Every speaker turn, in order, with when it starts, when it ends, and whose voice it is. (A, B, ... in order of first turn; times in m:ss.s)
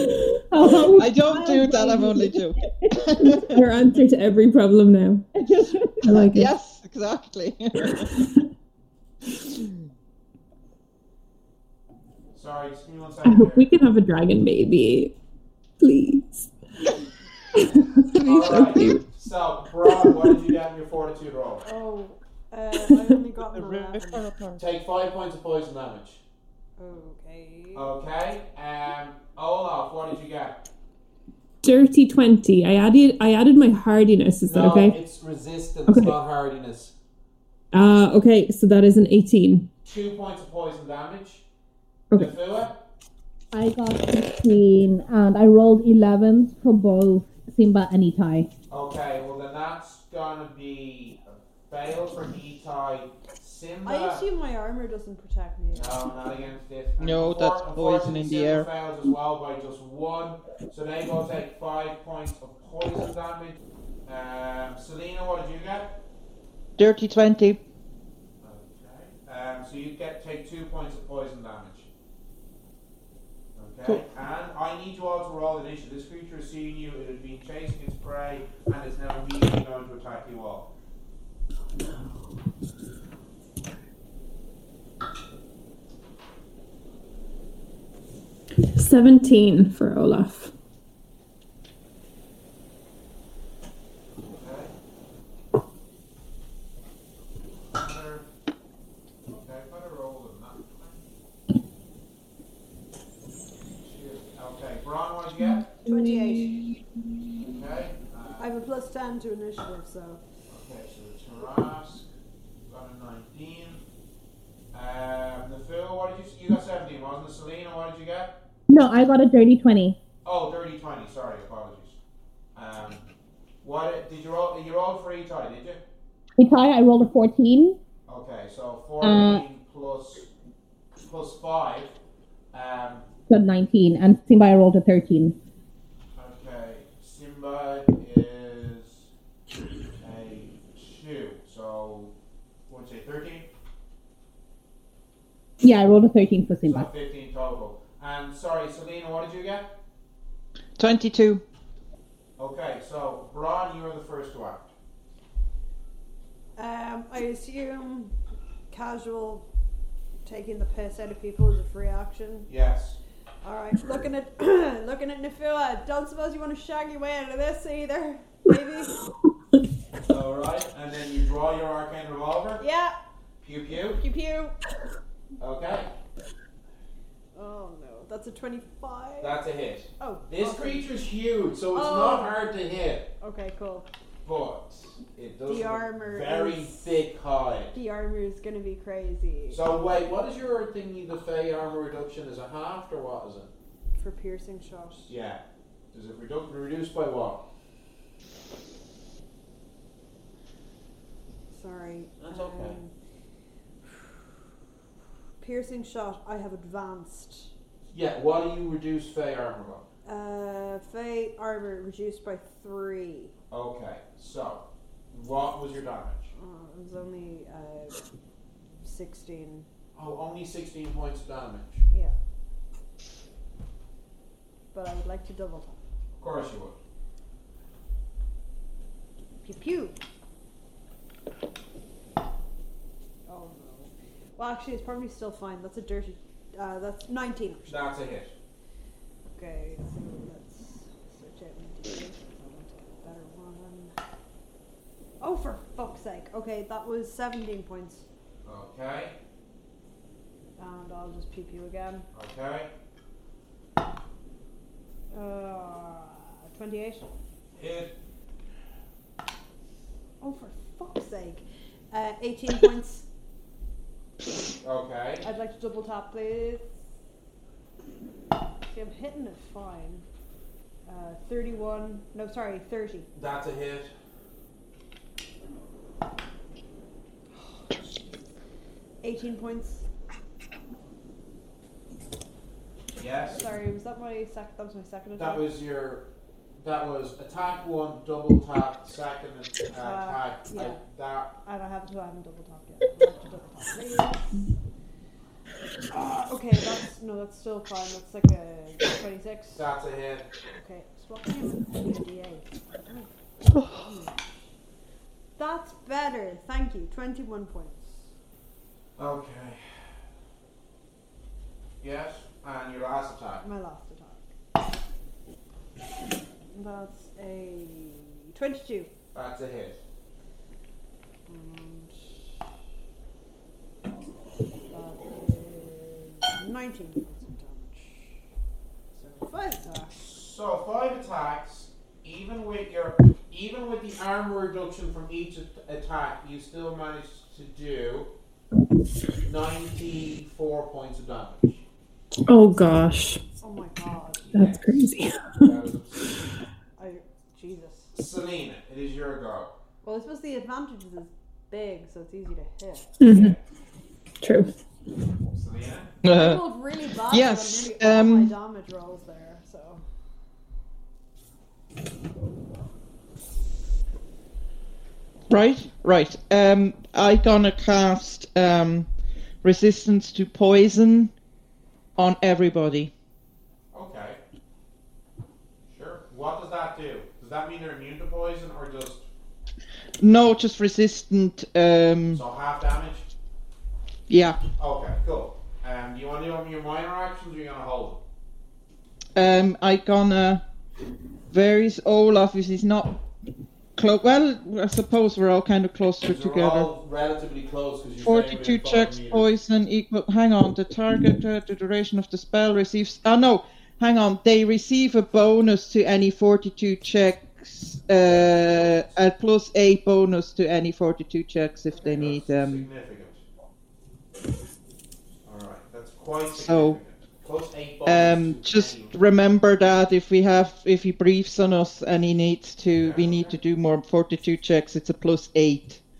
0:00.5-0:03.3 A
0:00.6-0:03.6 B
0:03.2-0:05.3 C
0:05.4-0:06.2 A
0:06.0-0:06.5 C
0:06.3-0:08.1 B
0:07.8-0:08.4 C
0:12.3-0:13.7 D
0:13.2-0:15.1 C
0:15.8-0:16.5 C
0:17.6-0:19.1 C
0:18.2-0:21.6 D
0:20.0-0:20.3 C
0:21.6-0:24.2 E
0:23.5-0:24.6 B
0:24.6-0:26.2 D
0:26.8-0:27.9 E
0:27.7-0:30.6 D
0:31.6-0:35.0 C
0:34.4-0:36.9 D
0:35.9-0:36.1 C
0:37.7-0:39.7 C
0:39.8-0:41.4 D
0:42.1-0:42.8 D
0:43.5-0:48.5 A
0:48.7-0:54.2 D
0:53.8-0:56.0 E
0:55.7-1:05.9 D
0:57.0-0:58.7 B
1:06.8-1:07.6 B
1:08.4-1:11.9 D
1:13.6-1:20.7 D
1:28.7-1:30.5 C
1:34.4-1:34.7 D
1:37.7-1:38.2 D
1:39.3-1:41.0 D
1:43.8-1:45.6 D
1:45.5-1:46.6 C
1:45.8-1:46.6 E
1:47.5-1:48.5 D
1:48.4-1:50.2 E
1:50.5-1:52.1 D
1:52.7-1:53.8 D
1:54.7-1:58.3 D
1:58.7-2:00.0 A
2:00.2-2:02.0 D
2:02.5-2:03.0 D
2:03.6-2:05.8 D
2:06.4-2:07.8 A
2:08.1-2:10.3 D
2:09.0-2:09.4 A
2:11.0-2:11.9 D
2:12.5-2:13.1 D
2:13.3-2:15.3 A
2:16.2-2:19.1 D
2:20.0-2:22.1 D
2:22.7-2:23.5 D
2:25.6-2:26.9 A
2:26.6-2:29.7 D
2:30.8-2:31.4 B
2:32.4-2:34.7 D
2:36.6-2:38.1 E
2:38.7-2:39.4 E
2:40.2-2:42.5 E
2:42.5-2:43.0 D
2:43.4-2:49.0 E
2:50.1-2:52.6 D
2:52.6-2:52.9 E
2:53.4-2:54.0 D
2:54.0-2:54.6 E
2:55.4-2:55.9 D
2:57.3-2:59.3 E
2:59.2-3:03.1 D
3:00.0-3:00.9 E
3:01.7-3:02.4 E
3:03.2-3:03.9 E
3:04.2-3:07.7 D
3:05.5-3:06.8 E
3:07.7-3:09.6 E
3:09.5-3:13.5 D
3:13.9-3:15.1 E
3:15.1-3:15.4 D
3:15.9-3:17.4 D
3:21.5-3:22.9 E
3:22.2-3:22.8 D
3:23.8-3:24.2 E
3:25.4-3:27.5 E
3:27.9-3:29.8 D
3:30.0-3:33.3 E
3:33.5-3:36.3 D
3:36.3-3:38.0 E
3:38.8-3:39.6 E
3:39.9-3:41.8 D
3:41.9-3:42.2 E
3:44.7-3:45.8 E
3:46.2-3:46.8 D
3:49.4-3:50.0 E
3:53.3-3:57.8 E
3:57.7-3:58.3 D
3:59.4-4:03.9 E
4:05.2-4:08.0 E
4:08.4-4:09.2 D
4:10.6-4:12.1 E
4:12.1-4:12.7 D
4:15.1-4:17.1 E
4:17.6-4:17.9 D
4:20.2-4:23.0 E
4:24.6-4:25.2 D
4:25.2-4:26.7 E
4:28.7-4:30.0 E
4:30.8-4:33.1 E
4:33.2-4:33.9 D
4:37.3-4:37.7 E
4:39.0-4:39.8 E
4:43.0-4:43.4 D
4:43.3-4:45.4 E
4:45.2-4:46.0 D
4:46.6-4:51.3 D
4:49.8-4:50.8 E
4:51.4-4:54.2 E
4:55.9-4:59.6 E
4:59.5-5:00.3 D
5:00.5-5:04.3 E
5:05.4-5:08.0 E
5:09.0-5:09.7 D
5:11.8-5:13.4 D
5:13.4-5:14.2 E
5:16.5-5:18.9 E
5:19.1-5:19.8 D
5:21.3-5:22.4 E
5:24.7-5:28.2 E
5:28.9-5:29.9 E
5:29.9-5:38.1 D
5:39.2-5:41.6 D
5:42.2-5:43.2 C
5:43.4-5:44.3 E
5:44.2-5:44.8 D
5:44.3-5:45.5 C
5:45.3-5:46.2 D
5:46.8-5:47.9 E
5:47.9-5:49.5 D
5:49.8-5:53.0 E
5:53.0-5:53.4 C
5:53.1-5:53.4 D
5:54.2-5:54.6 C
5:55.3-5:55.9 D
5:56.0-5:56.4 B
5:56.0-5:59.8 E
5:57.1-5:58.3 B
6:05.3-6:08.9 B
6:09.4-6:11.1 B
6:12.0-6:12.9 B
6:13.7-6:14.2 D
6:15.7-6:19.0 D
6:20.0-6:22.2 B
6:22.1-6:23.1 D
6:24.1-6:24.4 B
6:24.6-6:28.0 D
6:29.2-6:30.4 B
6:31.3-6:32.9 B
6:33.8-6:36.7 B
6:36.0-6:39.2 D
6:38.0-6:52.6 B
6:48.0-6:48.9 D
6:51.7-6:53.2 D
6:55.2-6:58.9 D
6:56.3-6:56.8 B
6:57.8-7:05.8 B
7:02.8-7:03.4 D